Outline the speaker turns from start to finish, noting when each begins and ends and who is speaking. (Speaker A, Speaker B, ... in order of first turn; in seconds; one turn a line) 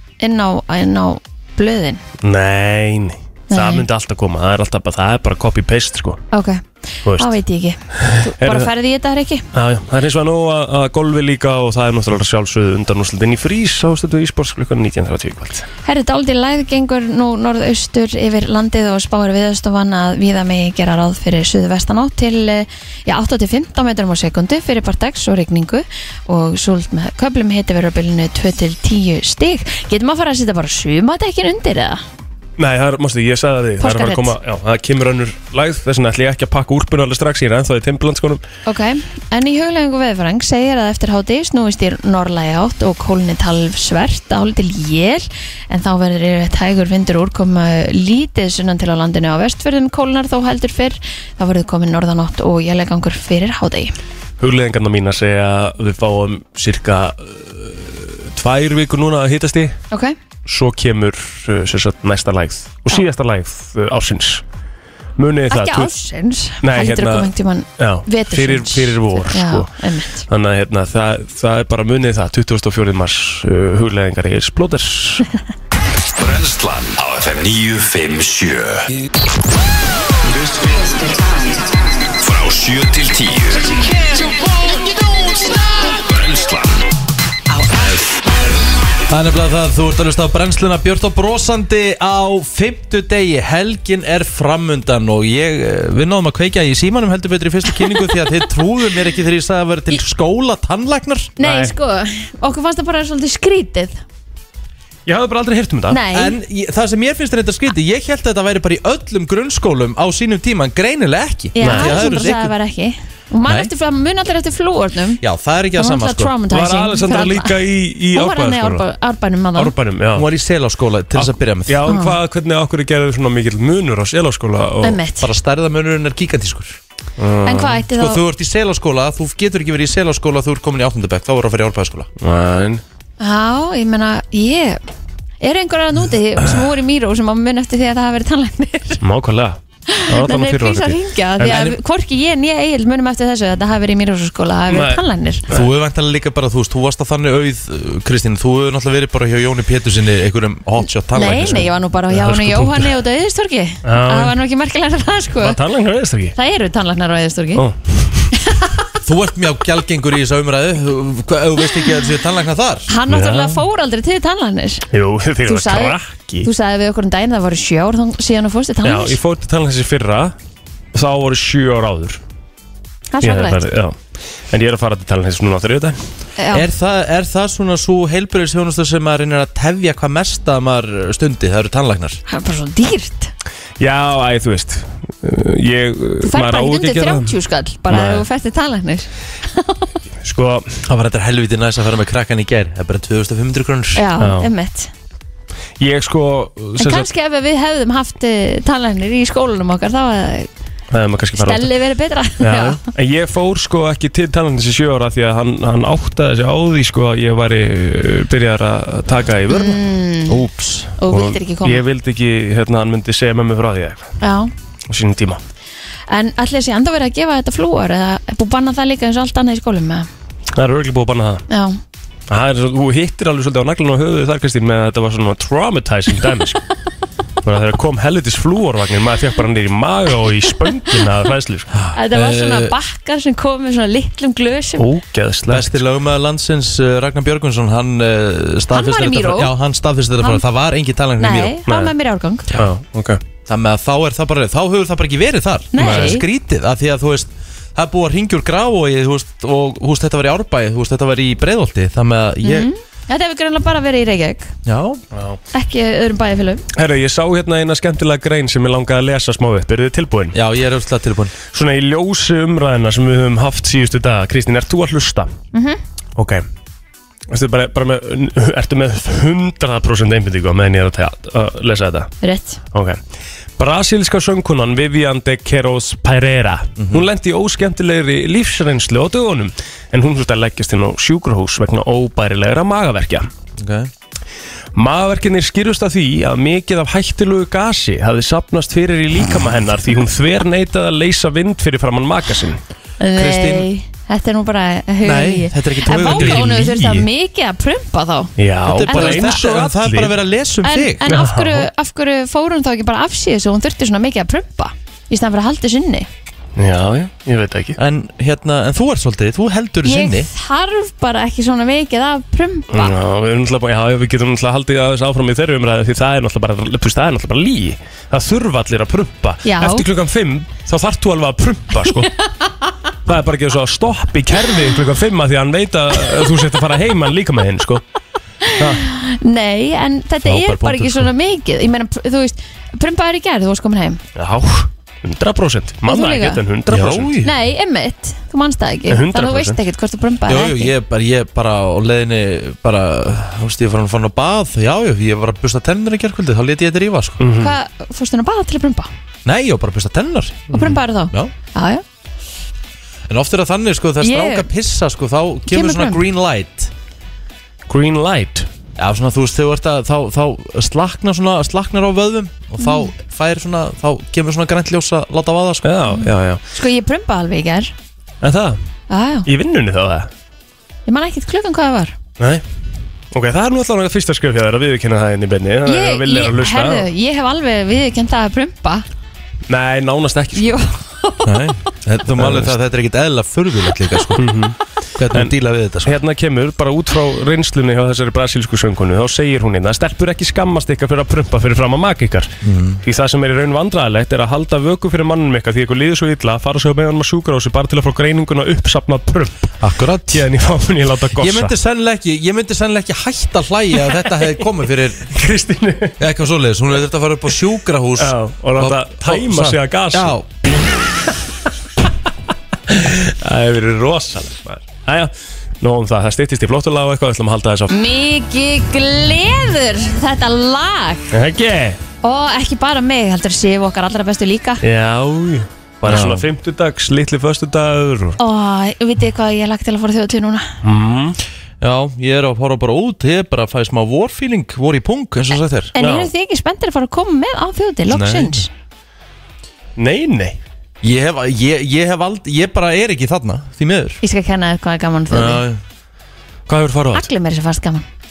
Speaker A: 0.2-2.0
Speaker B: 2.2-6.2
Speaker A: 3.5-3.9
Speaker A: 6.3-9.5
Speaker B: 7.1-7.4
Speaker B: 7.9-8.7
Speaker B: 9.5-15.7
Speaker A: 15.8-32.0
Speaker B: 32.6-38.4
Speaker A: 33.8-34.3
Speaker A: 38.6-54.0
Speaker B: 54.4-59.8
Speaker A: 59.9-60.1
Speaker B: 60.5-64.4
Speaker B: 65.2-65.9
Speaker A: 65.5-70.2
Speaker B: 66.6-69.7
Speaker B: 70.3-75.3
Speaker C: 76.2-78.9
Speaker C: 80.3-80.9
Speaker C: 82.2-83.9
Speaker C: 85.8-86.9
Speaker C: 87.6-88.2
Speaker D: 89.1-101.3
Speaker A: 97.8-98.2
Speaker A: 101.4-104.0
Speaker B: 101.4-101.7
Speaker B: 105.1-106.0
Speaker A: 105.9-106.4
Speaker D: 106.1-112.5
Speaker A: 111.5-115.2
Speaker B: 111.6-112.0
Speaker D: 115.2-116.3
Speaker A: 115.8-117.6
Speaker B: 116.5-118.8
Speaker A: 118.1-119.7
Speaker B: 119.5-120.3
Speaker D: 120.1-121.8
Speaker B: 121.2-125.0
Speaker A: 121.9-122.2
Speaker A: 124.8-125.3
Speaker D: 125.2-126.8
Speaker B: 127.2-127.8
Speaker A: 127.5-128.2
Speaker D: 127.9-132.1
Speaker B: 132.2-132.8
Speaker A: 133.2-134.8
Speaker A: 135.4-139.0
Speaker B: 139.0-141.0
Speaker A: 139.9-145.4
Speaker D: 141.4-141.8
Speaker B: 144.7-145.7
Speaker D: 145.5-151.7
Speaker A: 151.1-155.6
Speaker B: 152.1-152.9
Speaker B: 153.9-154.3
Speaker B: 155.4-156.3
Speaker A: 156.3-157.6
Speaker B: 157.6-158.3
Speaker A: 158.3-158.8
Speaker D: 159.1-162.9
Speaker A: 162.9-164.9
Speaker B: 163.1-163.6
Speaker B: 164.9-166.5
Speaker A: 165.5-169.2
Speaker B: 168.8-170.3
Speaker B: 170.9-172.2
Speaker A: 173.1-173.6
Speaker B: 173.2-174.0
Speaker B: 174.5-176.0
Speaker A: 176.4-176.7
Speaker D: 176.5-182.2
Speaker A: 182.3-183.3
Speaker B: 183.8-187.3
Speaker A: 186.2-189.9
Speaker B: 187.9-188.2
Speaker B: 190.2-190.8
Speaker D: 190.9-194.0
Speaker A: 193.9-194.9
Speaker B: 194.2-194.5
Speaker B: 195.8-197.1
Speaker A: 196.8-200.5
Speaker B: 200.9-201.8
Speaker A: 201.4-202.8
Speaker B: 202.4-209.8
Speaker A: 209.5-210.4
Speaker D: 210.3-210.9
Speaker A: 211.0-211.8
Speaker B: 211.1-214.1
Speaker A: 214.2-214.5
Speaker B: 214.9-215.4
Speaker A: 216.1-220.1
Speaker B: 220.6-221.4
Speaker A: 221.5-221.8
Speaker B: 222.3-226.6
Speaker B: 227.4-231.7
Speaker D: 231.7-232.8
Speaker A: 231.9-234.9
Speaker B: 234.8-235.8
Speaker D: 235.5-241.6
Speaker A: 238.7-239.5
Speaker A: 241.2-242.6
Speaker B: 241.7-241.9
Speaker B: 242.5-243.2
Speaker D: 243.5-252.7
Speaker A: 245.7-246.2
Speaker B: 245.8-246.1
Speaker A: 252.4-254.5
Speaker D: 254.6-255.0
Speaker B: 255.1-255.4
Speaker A: 255.5-256.6
Speaker B: 256.7-260.4
Speaker D: 260.3-261.4
Speaker B: 261.5-265.3
Speaker A: 265.5-265.8
Speaker B: 266.1-266.4
Speaker B: 267.3-272.1
Speaker A: 272.2-272.6
Speaker B: 272.7-273.0
Speaker B: 273.6-283.3
Speaker D: 276.8-277.1
Speaker D: 283.6-283.9
Speaker B: 284.8-292.6
Speaker A: 293.0-298.3
Speaker D: 293.1-293.7
Speaker D: 295.0-296.7
Speaker B: 296.0-297.1
Speaker B: 298.4-300.1
Speaker D: 298.6-301.1
Speaker A: 298.9-299.3
Speaker A: 300.6-306.1
Speaker B: 301.1-301.7
Speaker B: 306.6-307.8
Speaker D: 307.8-310.3
Speaker A: 309.8-312.9
Speaker B: 312.7-322.1
Speaker A: 319.4-319.9
Speaker B: 323.1-327.8
Speaker A: 328.4-334.0
Speaker B: 328.6-328.8
Speaker B: 330.3-331.1
Speaker B: 334.1-337.3
Speaker A: 335.9-336.4
Speaker D: 336.7-337.2
Speaker A: 337.2-340.7
Speaker B: 338.9-339.6
Speaker D: 340.3-347.2
Speaker B: 347.2-347.6
Speaker A: 347.4-348.9
Speaker D: 349.2-351.3
Speaker A: 350.5-351.8
Speaker D: 353.1-356.7
Speaker A: 354.0-354.5
Speaker A: 355.5-356.0
Speaker B: 357.7-358.5
Speaker D: 358.8-365.7
Speaker A: 362.6-362.9
Speaker B: 365.6-366.4
Speaker A: 365.9-367.7
Speaker B: 368.2-368.6
Speaker A: 368.9-369.3
Speaker B: 369.3-370.1
Speaker A: 370.9-371.9
Speaker B: 372.2-372.4
Speaker B: 373.1-376.9
Speaker A: 375.6-378.9
Speaker B: 379.5-380.6
Speaker A: 380.4-381.3
Speaker D: 381.2-384.2
Speaker B: 382.2-382.6
Speaker B: 384.1-384.6
Speaker D: 385.0-385.9
Speaker B: 385.1-399.6
Speaker D: 392.4-392.8
Speaker D: 399.6-400.3
Speaker B: 400.1-401.5
Speaker D: 401.2-405.1
Speaker B: 403.8-404.4
Speaker B: 405.1-406.0
Speaker D: 406.0-410.3
Speaker B: 408.0-410.1
Speaker B: 412.7-417.7
Speaker A: 417.7-421.1
Speaker B: 421.1-421.8
Speaker A: 422.0-424.6
Speaker B: 424.6-428.2
Speaker D: 425.9-426.3
Speaker A: 428.2-430.5
Speaker B: 430.6-431.2
Speaker D: 431.6-435.8
Speaker A: 435.8-438.5
Speaker B: 435.8-436.1
Speaker D: 438.0-438.3
Speaker B: 439.8-440.4
Speaker D: 440.8-444.0
Speaker A: 444.0-445.4
Speaker D: 445.1-445.6
Speaker B: 446.5-447.1
Speaker A: 446.9-447.9